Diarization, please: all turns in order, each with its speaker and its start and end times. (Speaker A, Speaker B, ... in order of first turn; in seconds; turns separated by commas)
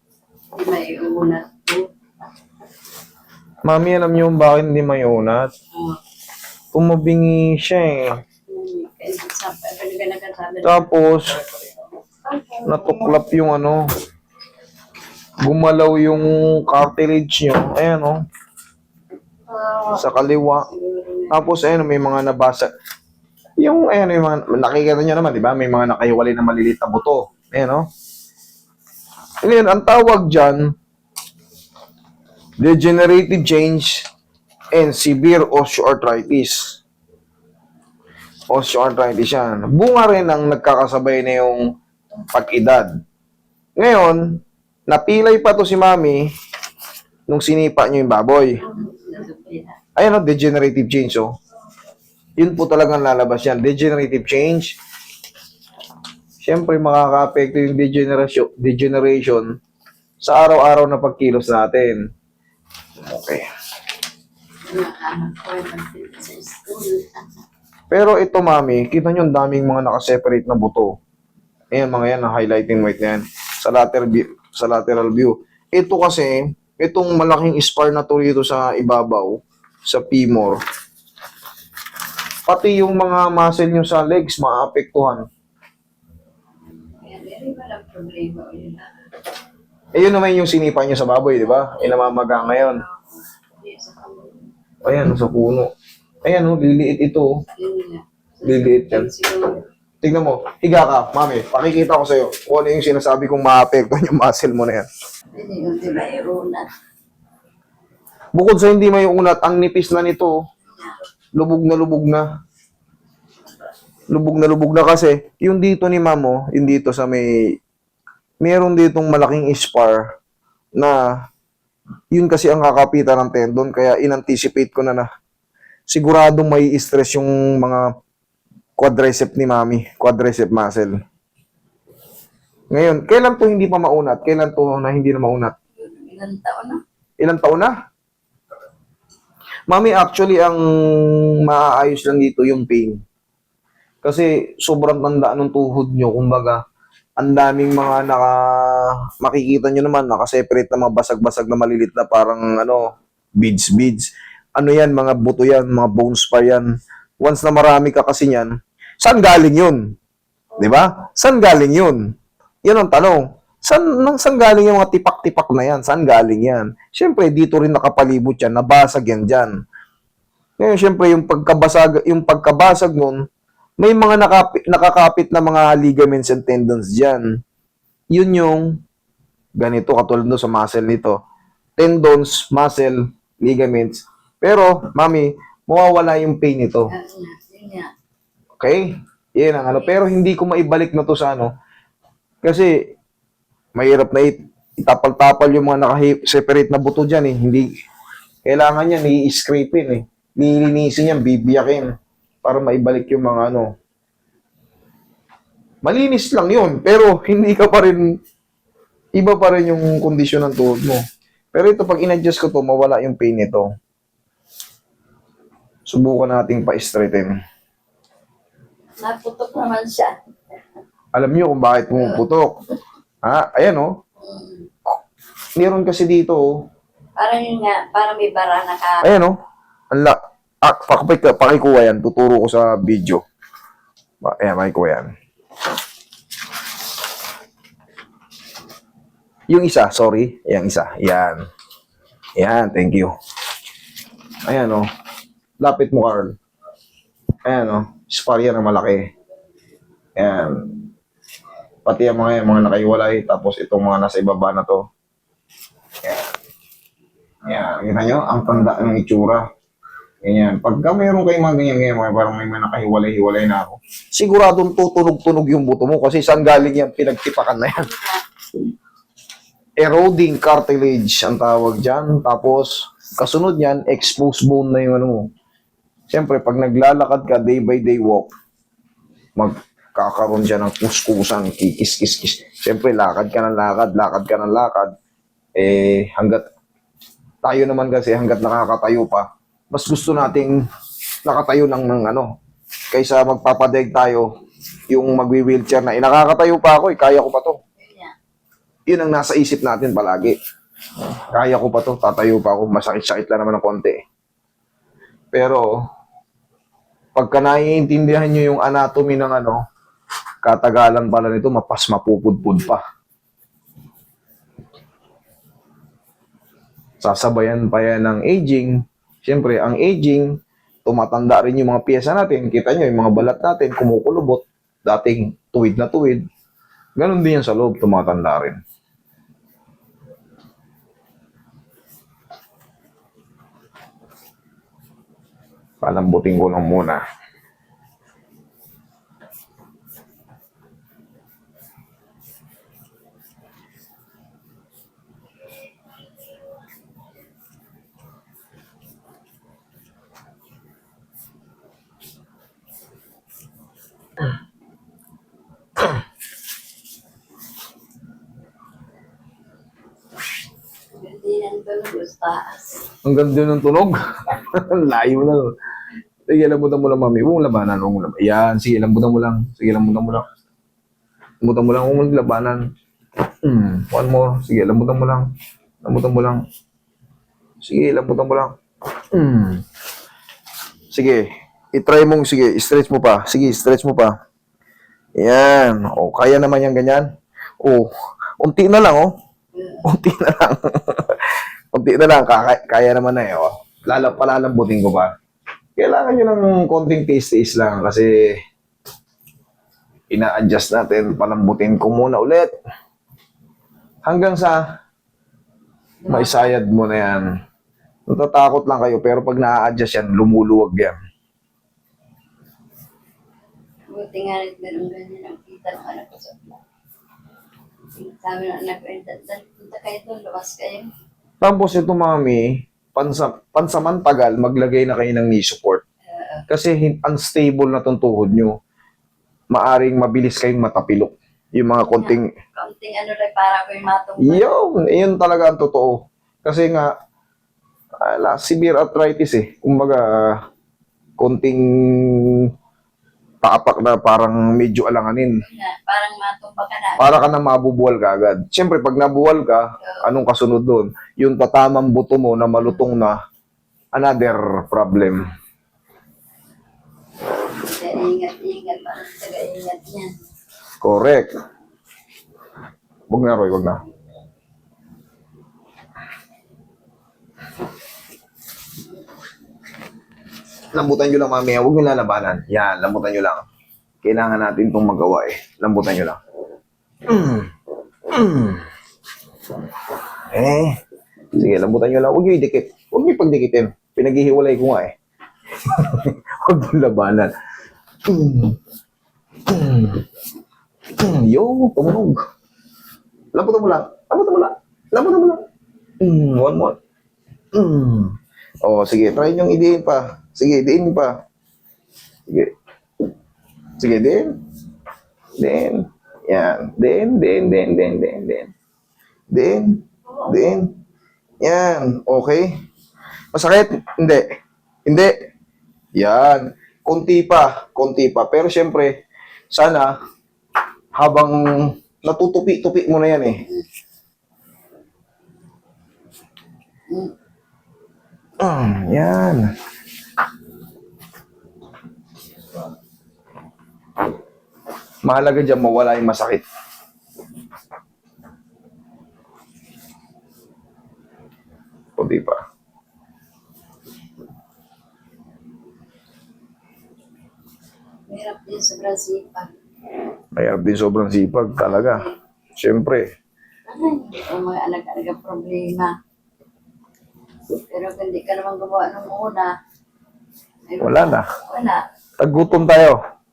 Speaker A: 0.6-1.9, Speaker B: 3.7-5.5, Speaker A: 5.7-6.0, Speaker B: 6.7-8.2, Speaker A: 8.5-10.9, Speaker B: 10.6-11.4, Speaker B: 12.6-13.8, Speaker B: 15.4-18.2, Speaker A: 19.5-21.5, Speaker B: 19.9-20.7, Speaker B: 21.3-22.7, Speaker B: 23.6-27.9, Speaker B: 29.4-30.6, Speaker B: 32.6-34.1, Speaker B: 34.7-36.8, Speaker B: 38.5-41.6, Speaker B: 42.3-42.9, Speaker B: 43.8-44.2, Speaker B: 44.9-46.3, Speaker B: 47.3-48.6, Speaker A: 48.6-49.8, Speaker B: 50.0-51.3, Speaker B: 52.4-54.7, Speaker B: 56.4-59.5, Speaker B: 60.2-62.0, Speaker B: 63.0-63.5, Speaker A: 64.7-67.4, Speaker B: 67.9-70.9, Speaker B: 71.7-80.6, Speaker B: 82.5-85.2, Speaker A: 87.0-88.9, Speaker B: 90.0-92.8, Speaker A: 91.4-94.5, Speaker B: 94.8-95.7, Speaker B: 96.2-97.3, Speaker A: 97.6-99.7, Speaker B: 98.5-99.1, Speaker B: 100.0-104.9, Speaker A: 105.3-106.7, Speaker B: 108.3-110.3, Speaker A: 110.7-111.0, Speaker B: 111.4-112.3, Speaker B: 114.1-117.3, Speaker B: 118.4-120.1, Speaker B: 122.1-125.1, Speaker B: 125.9-127.9, Speaker B: 128.8-131.0, Speaker B: 132.7-135.5, Speaker A: 135.8-136.8, Speaker B: 137.2-137.7, Speaker B: 139.7-143.0, Speaker B: 144.0-146.6, Speaker B: 147.2-152.9, Speaker B: 153.4-156.7, Speaker B: 157.2-159.8, Speaker B: 160.6-162.0, Speaker B: 162.7-169.6, Speaker B: 170.6-173.2, Speaker B: 173.8-177.2, Speaker B: 178.1-178.7, Speaker B: 179.6-181.2, Speaker B: 181.8-186.9, Speaker A: 186.9-187.9, Speaker B: 188.6-191.5, Speaker A: 189.7-190.0, Speaker B: 192.4-192.7, Speaker B: 193.8-197.7, Speaker B: 198.5-203.7, Speaker B: 205.8-208.1, Speaker B: 209.2-211.0, Speaker B: 211.5-213.7, Speaker B: 215.9-217.3, Speaker A: 219.0-220.2, Speaker B: 221.2-222.6, Speaker B: 223.2-223.9, Speaker A: 224.2-224.7, Speaker B: 225.6-226.5, Speaker A: 227.2-229.1, Speaker B: 229.0-229.4, Speaker B: 229.9-233.2, Speaker B: 234.2-235.1, Speaker B: 239.5-241.4, Speaker B: 242.4-243.1, Speaker B: 244.5-244.8, Speaker B: 245.6-246.4, Speaker B: 247.4-249.1, Speaker B: 250.2-250.8, Speaker B: 251.9-254.8, Speaker B: 257.5-259.4, Speaker B: 260.2-268.0, Speaker A: 267.9-268.2, Speaker B: 269.8-275.3, Speaker B: 276.1-278.3, Speaker B: 279.4-284.9, Speaker B: 285.6-286.4, Speaker B: 287.4-290.6, Speaker B: 291.3-292.3, Speaker B: 292.9-294.3, Speaker B: 294.9-297.6, Speaker A: 297.8-298.1, Speaker B: 298.9-300.4, Speaker B: 301.3-304.0, Speaker B: 305.3-305.6, Speaker B: 307.2-309.6, Speaker B: 310.4-312.8, Speaker B: 317.0-320.3, Speaker B: 320.9-326.2, Speaker B: 327.0-328.6, Speaker B: 335.8-337.0, Speaker A: 361.0-362.9, Speaker B: 363.1-365.5, Speaker B: 366.3-370.3, Speaker B: 371.4-372.7, Speaker B: 373.4-375.3, Speaker B: 375.8-376.4, Speaker B: 377.6-378.6, Speaker B: 379.1-379.6, Speaker B: 380.9-384.1, Speaker B: 385.2-387.1, Speaker B: 387.6-389.1, Speaker A: 389.6-389.9, Speaker B: 389.8-395.1, Speaker B: 395.8-398.3, Speaker B: 400.1-402.5, Speaker B: 404.1-404.6, Speaker A: 406.0-406.6, Speaker B: 406.1-407.3, Speaker B: 408.1-411.0, Speaker A: 413.9-416.6, Speaker A: 417.9-420.9, Speaker B: 421.4-425.8, Speaker A: 426.1-426.4, Speaker B: 426.5-428.5, Speaker B: 429.5-432.3, Speaker A: 431.9-434.5, Speaker B: 434.2-436.9, Speaker B: 438.0-440.4, Speaker B: 441.2-442.5, Speaker B: 443.4-445.4, Speaker A: 445.4-447.3, Speaker B: 447.0-453.2, Speaker A: 449.8-450.1, Speaker B: 453.9-455.3, Speaker A: 457.5-460.1, Speaker B: 460.8-461.3, Speaker B: 463.1-463.8, Speaker B: 470.7-473.4, Speaker B: 474.0-476.2, Speaker B: 477.1-477.5, Speaker B: 478.1-478.7, Speaker B: 480.3-480.8, Speaker B: 481.4-484.9, Speaker B: 485.6-487.3, Speaker B: 488.1-488.6, Speaker B: 489.5-490.1, Speaker B: 491.0-492.2, Speaker B: 493.3-495.4, Speaker B: 496.0-496.8, Speaker B: 497.5-501.2, Speaker B: 502.3-502.5, Speaker B: 503.8-504.3, Speaker B: 505.4-508.5, Speaker B: 509.3-510.7, Speaker B: 511.4-512.5, Speaker B: 513.3-514.2, Speaker B: 514.9-515.1, Speaker B: 516.0-518.9, Speaker B: 519.5-519.9, Speaker B: 521.0-523.4, Speaker B: 528.4-529.5, Speaker B: 535.0-536.5, Speaker B: 542.0-542.4, Speaker A: 548.1-549.5, Speaker B: 550.4-552.1, Speaker A: 551.6-552.2, Speaker B: 552.6-553.1, Speaker A: 553.7-556.0, Speaker A: 557.6-559.5, Speaker A: 560.7-561.8, Speaker B: 560.8-561.3, Speaker B: 562.2-563.0